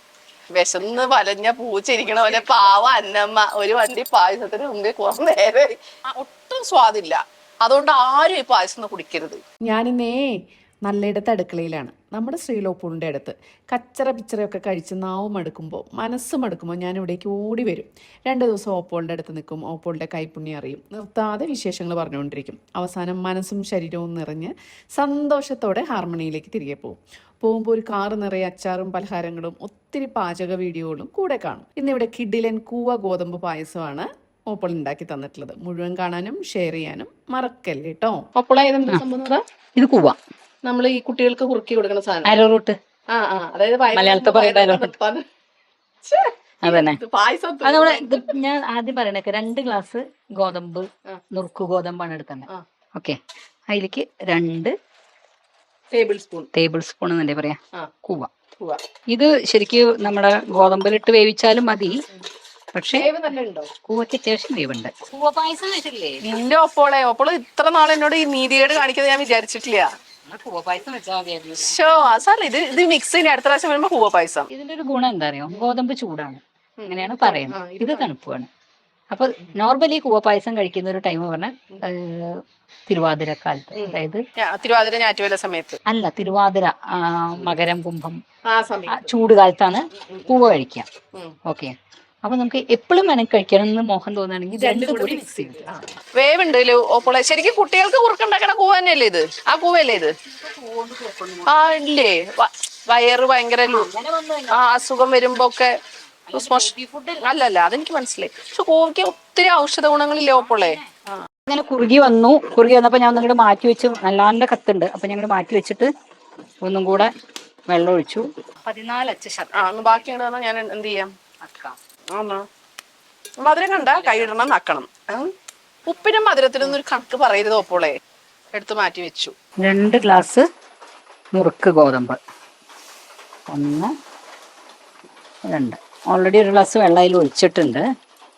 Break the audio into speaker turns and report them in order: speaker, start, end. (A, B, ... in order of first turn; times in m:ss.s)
0:00.6-0:09.4 A
0:09.7-0:10.3 B
0:10.8-0:38.2 B
0:38.3-0:39.4 A
0:39.8-0:40.2 C
0:40.6-0:42.3 A
0:42.2-0:42.8 C
0:43.1-0:45.2 A
0:43.9-0:44.9 C
0:46.0-0:48.3 A
0:46.6-0:47.0 C
0:47.6-0:53.2 C
0:53.7-0:54.7 C
0:55.9-0:56.5 A
0:56.5-0:58.3 C
0:59.1-1:02.0 C
1:02.7-1:03.1 C
1:03.0-1:03.7 A
1:03.8-1:06.3 C
1:06.2-1:09.9 A
1:10.2-1:11.7 C
1:11.6-1:14.5 A
1:14.5-1:18.5 C
1:16.8-1:18.1 A
1:19.1-1:24.2 C
1:23.7-1:25.8 A
1:25.8-1:28.2 C
1:28.5-1:29.1 A
1:28.9-1:30.9 C
1:30.0-1:30.4 A
1:31.4-1:35.8 C
1:34.5-1:40.1 A
1:40.2-1:41.6 C
1:41.5-1:43.9 A
1:43.7-1:44.6 C
1:44.5-1:45.8 A
1:46.3-1:47.3 C
1:46.3-1:46.7 A
1:47.2-1:51.2 A
1:50.3-1:50.9 C
1:51.4-1:55.9 C
1:56.6-1:57.1 C
1:57.7-1:59.9 C
1:59.5-2:01.1 A
2:01.4-2:01.8 C
2:02.1-2:02.4 A
2:03.4-2:05.3 A
2:03.8-2:04.3 C
2:05.9-2:08.0 A
2:08.5-2:09.3 A
2:09.6-2:10.4 C
2:11.3-2:12.2 C
2:13.5-2:13.9 C
2:15.5-2:17.8 C